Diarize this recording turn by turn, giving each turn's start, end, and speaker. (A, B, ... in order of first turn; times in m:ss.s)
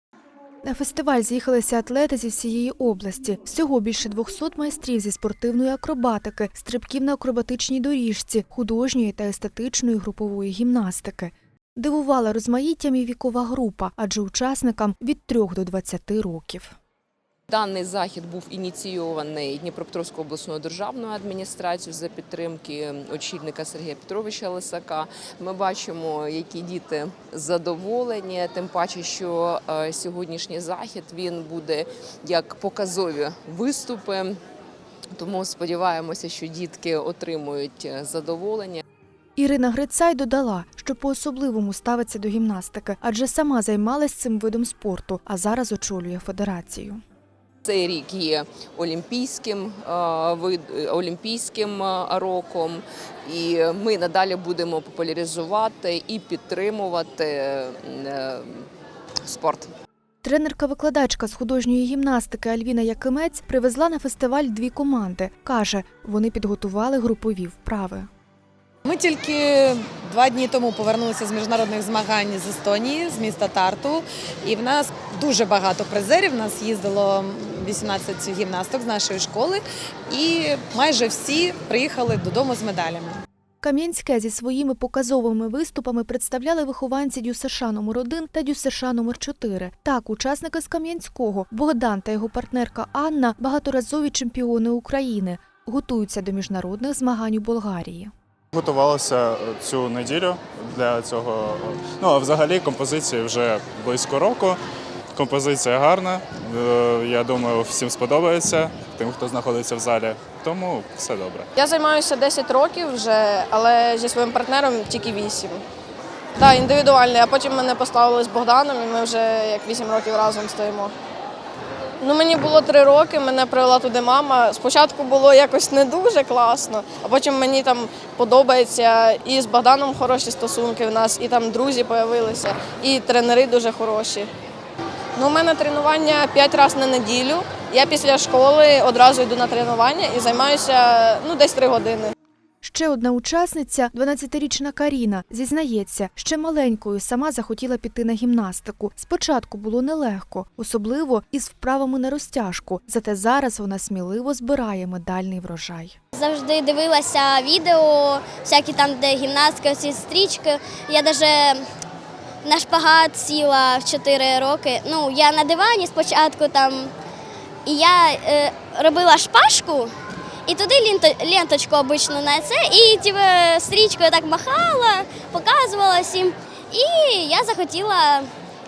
0:00.6-0:16.7 A
0:17.5-0:34.4 B
0:35.1-0:38.8 B
0:39.4-0:47.0 A
0:47.6-0:58.7 B
0:59.2-0:59.7 B
1:00.2-1:08.1 A
1:08.8-1:23.2 C
1:23.6-1:38.1 A
1:38.5-1:44.6 D
1:45.1-1:51.5 D
1:51.6-1:55.6 E
1:56.4-2:00.9 E
2:02.0-2:14.3 E
2:15.2-2:22.1 E
2:22.6-2:35.9 A
2:36.1-2:41.6 F
2:42.4-2:46.9 F
2:47.6-2:49.9 F
2:50.4-2:58.3 F